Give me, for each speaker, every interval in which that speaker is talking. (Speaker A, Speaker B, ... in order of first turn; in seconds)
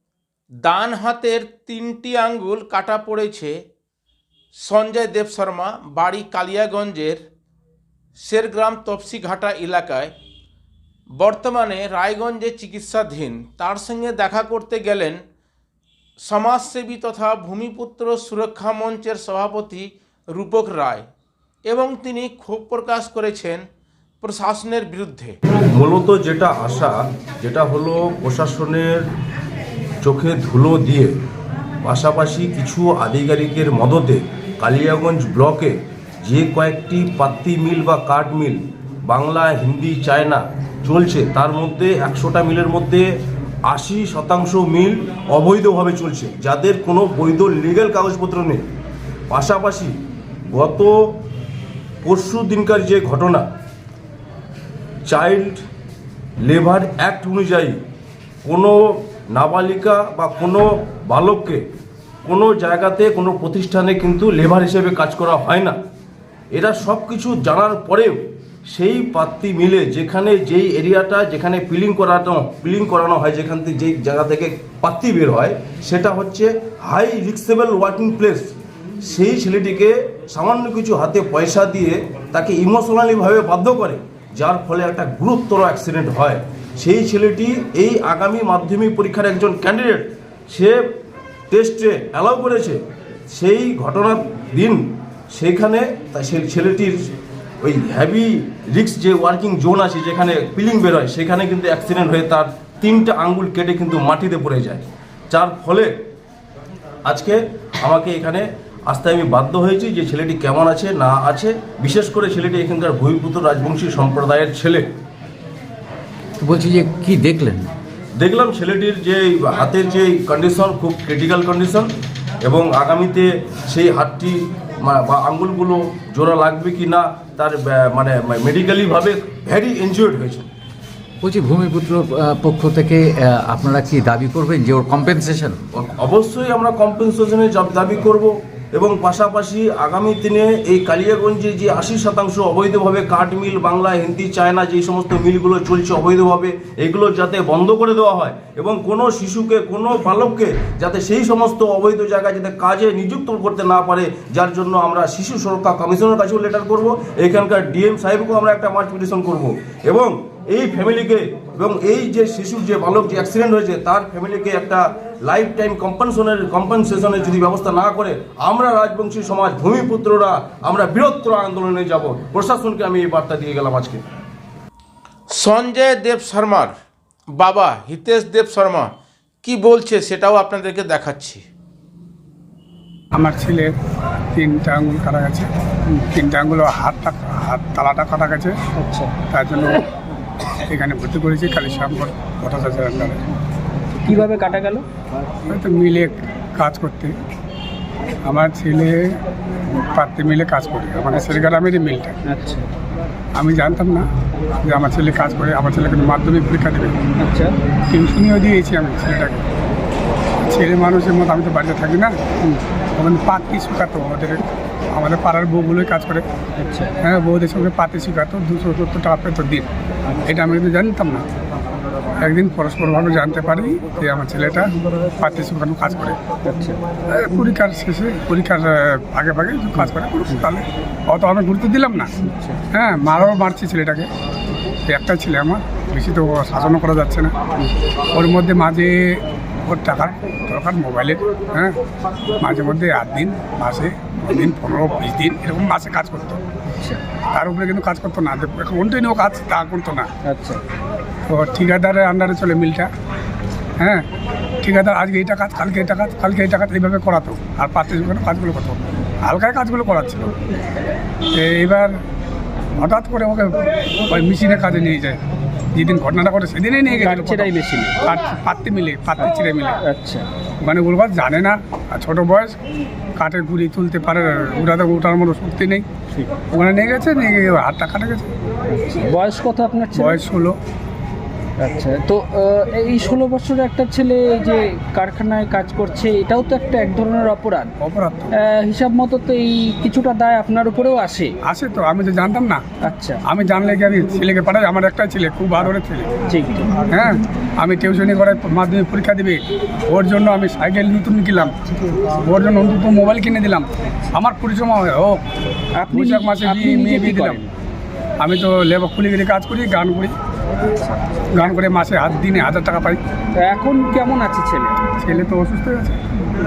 Speaker A: 0.6-3.6, 4.6-7.2, 8.2-10.1, 11.2-15.2, 16.2-21.1, 21.7-23.6, 24.2-25.4, 175.3-176.7, 177.4-178.9, 179.4-181.4
Speaker B: 25.7-29.1, 30.0-31.1, 31.8-43.0, 43.7-48.7, 49.3-50.0, 50.5-50.9, 52.0-53.4, 55.1-55.6, 56.4-57.8, 58.4-61.6, 62.2-65.8, 66.5-90.8, 91.5-92.8, 93.3-97.1, 97.6-105.9, 107.0-114.9, 118.2-121.9, 122.4-130.5, 135.7-174.0
Speaker C: 116.4-117.7, 131.2-135.6
Speaker D: 183.1-183.7, 184.3-185.5, 186.1-188.5, 189.3-189.8, 190.5-193.2, 195.5-197.1, 198.2-199.1, 199.7-202.2, 203.3-204.1, 204.6-207.0, 207.9-209.4, 210.5-212.2, 212.9-216.2, 217.0-219.7, 220.2-221.2, 222.2-224.7, 225.2-226.2, 227.1-232.1, 232.7-234.1, 234.9-237.3, 238.1-241.7, 242.4-246.4, 247.3-250.1, 251.3-252.9, 254.6-260.4, 261.3-261.9, 262.8-265.2, 265.7-269.8, 270.6-272.6, 273.2-275.9, 276.5-278.3, 279.9-280.6, 287.8-288.3, 291.5-292.6, 293.3-296.2, 296.9-305.2, 305.9-307.4, 308.2-310.1, 311.3-313.0, 315.0-316.0
Speaker E: 188.8-189.1, 194.0-194.8, 202.3-202.7, 207.2-207.6, 216.6-216.9, 226.4-226.8, 229.8-230.4, 232.2-232.6, 246.7-247.0, 250.2-250.6, 267.0-267.9, 269.8-270.2, 278.7-280.2, 281.6-287.7, 288.3-291.3, 292.8-293.2, 296.3-296.9, 305.8-307.5, 310.6-311.0, 313.4-314.8